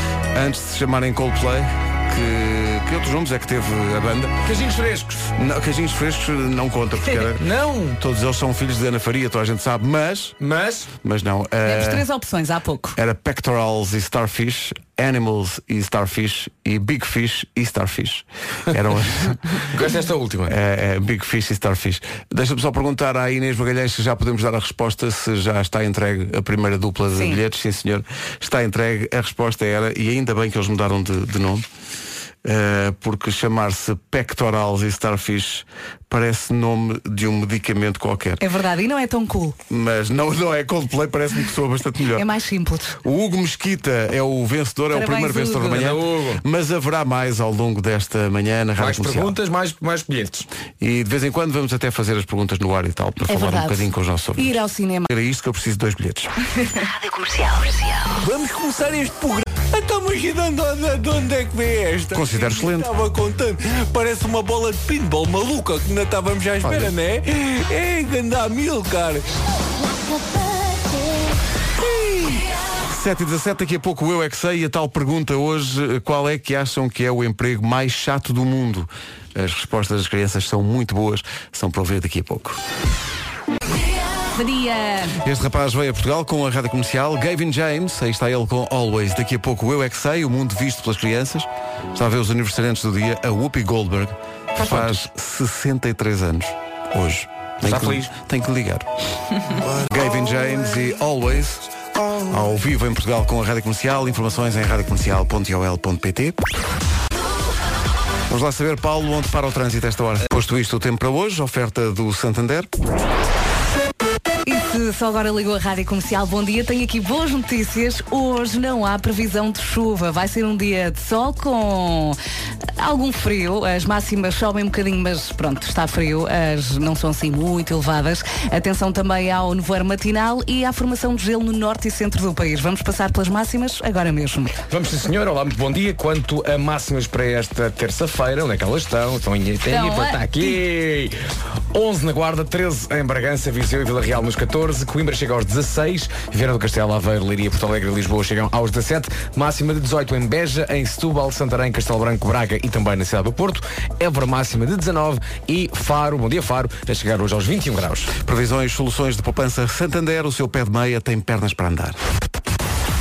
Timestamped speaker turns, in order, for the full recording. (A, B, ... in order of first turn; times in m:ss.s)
0:00.3-0:04.3 A
0:04.4-0:05.3 B
0:05.4-0:10.3 A
0:07.4-0:08.0 B
0:10.4-0:10.9 B
0:11.0-0:12.0 A
0:11.6-0:13.0 C
0:13.0-0:19.7 A
0:19.7-0:20.5 B
0:20.5-0:31.6 A
0:27.1-0:27.4 C
0:32.4-0:38.4 A
0:38.4-0:39.6 C
0:39.7-0:42.2 A
0:42.1-0:43.0 C
0:43.0-0:49.4 A
0:44.9-0:45.8 C
0:45.7-0:46.4 B
0:48.8-0:50.5 B
0:50.8-0:56.3 A
0:53.2-0:55.1 C
0:56.5-0:56.8 C
0:56.8-0:58.2 D
0:58.2-1:09.3 E
1:02.1-1:02.9 A
1:06.6-1:06.9 A
1:09.7-1:11.4 D
1:11.8-1:22.6 A
1:24.3-1:25.2 C
1:25.2-1:38.9 A
1:34.6-1:35.0 B
1:37.6-1:38.1 B
1:39.9-1:41.7 A
1:42.3-1:46.4 A
1:48.3-1:52.7 A
1:54.4-2:02.2 C
2:02.8-2:14.6 C
2:14.7-2:21.2 B
2:19.7-2:20.6 C
2:21.7-2:38.1 B
2:38.2-2:42.0 A